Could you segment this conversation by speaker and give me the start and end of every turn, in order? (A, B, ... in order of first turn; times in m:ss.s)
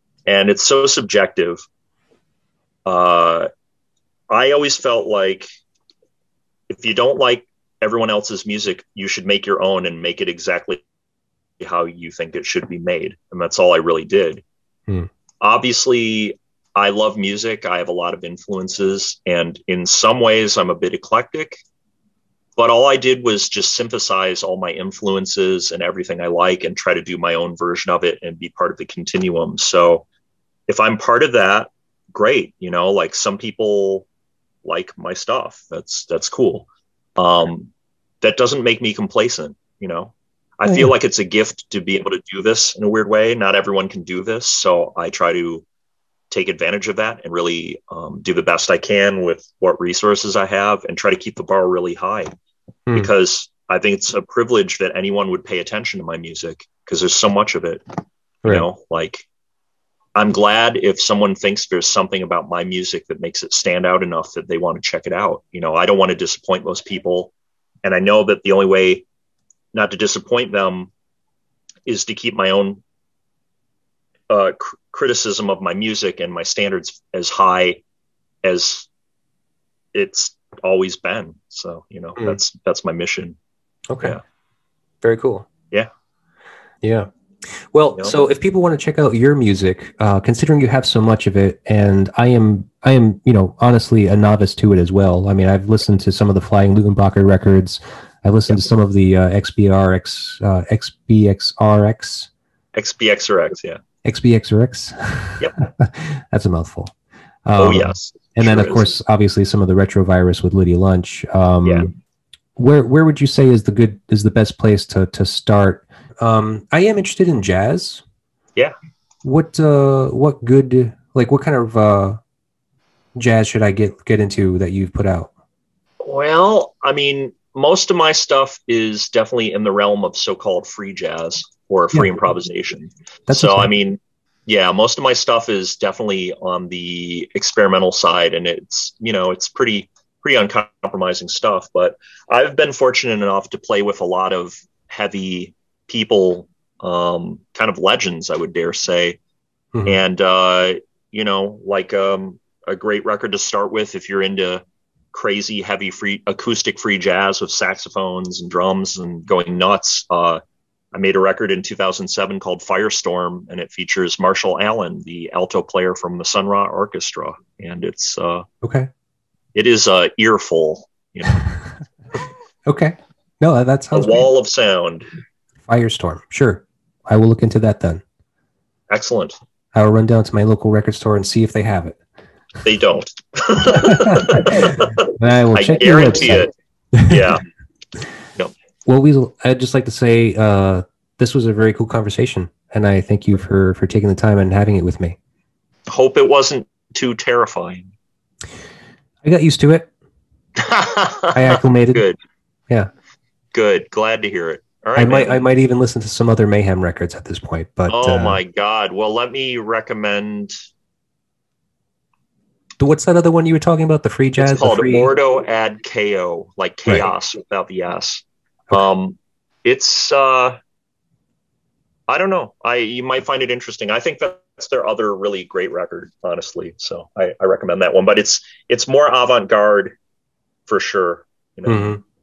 0:00.3-0:01.6 A
0:02.9-0:03.5 A
0:04.3-0:05.5 A
0:06.7-0:10.8 A
0:11.6-0:14.4 A
0:15.4-0:21.6 A
0:22.6-0:30.0 A
0:30.7-0:34.1 A
0:34.6-0:45.6 A
0:46.3-0:52.3 A
0:53.0-0:57.8 A
0:58.4-0:59.3 A
1:00.2-1:07.3 A
1:07.8-1:09.1 A
1:09.7-1:10.9 A
1:11.9-1:12.8 A
1:14.3-1:17.8 A
1:18.4-1:18.9 A
1:19.9-1:23.4 A
1:23.9-1:24.2 B
1:25.0-1:25.5 B
1:26.8-1:27.1 B
1:27.7-1:42.3 B
1:42.7-1:43.8 A
1:44.0-1:46.9 B
1:47.5-1:51.9 B
1:47.6-1:48.9 A
1:51.6-1:51.9 A
1:52.6-1:58.0 B
1:59.2-2:02.2 B
2:03.2-2:05.3 B
2:06.0-2:29.2 A
2:13.3-2:13.7 B
2:29.8-2:30.0 B
2:29.9-2:40.4 A
2:40.9-2:48.5 A
2:48.6-2:48.9 B
2:49.6-2:51.5 A
2:52.7-2:54.3 B
2:53.9-2:55.1 A
2:55.7-2:58.0 B
2:58.9-2:59.4 A
2:59.7-3:02.0 B
3:02.6-3:06.5 A
3:03.7-3:07.4 B
3:07.1-3:07.4 A
3:08.9-3:15.2 B
3:15.9-3:17.9 A
3:19.2-3:19.9 B
3:20.6-3:22.2 A
3:21.3-3:22.1 B
3:23.5-3:25.4 A
3:25.0-3:28.4 B
3:27.9-3:30.6 A
3:32.8-3:35.1 B
3:34.4-3:40.6 A
3:42.1-3:50.0 A
3:50.7-3:52.0 A
3:51.7-3:52.0 B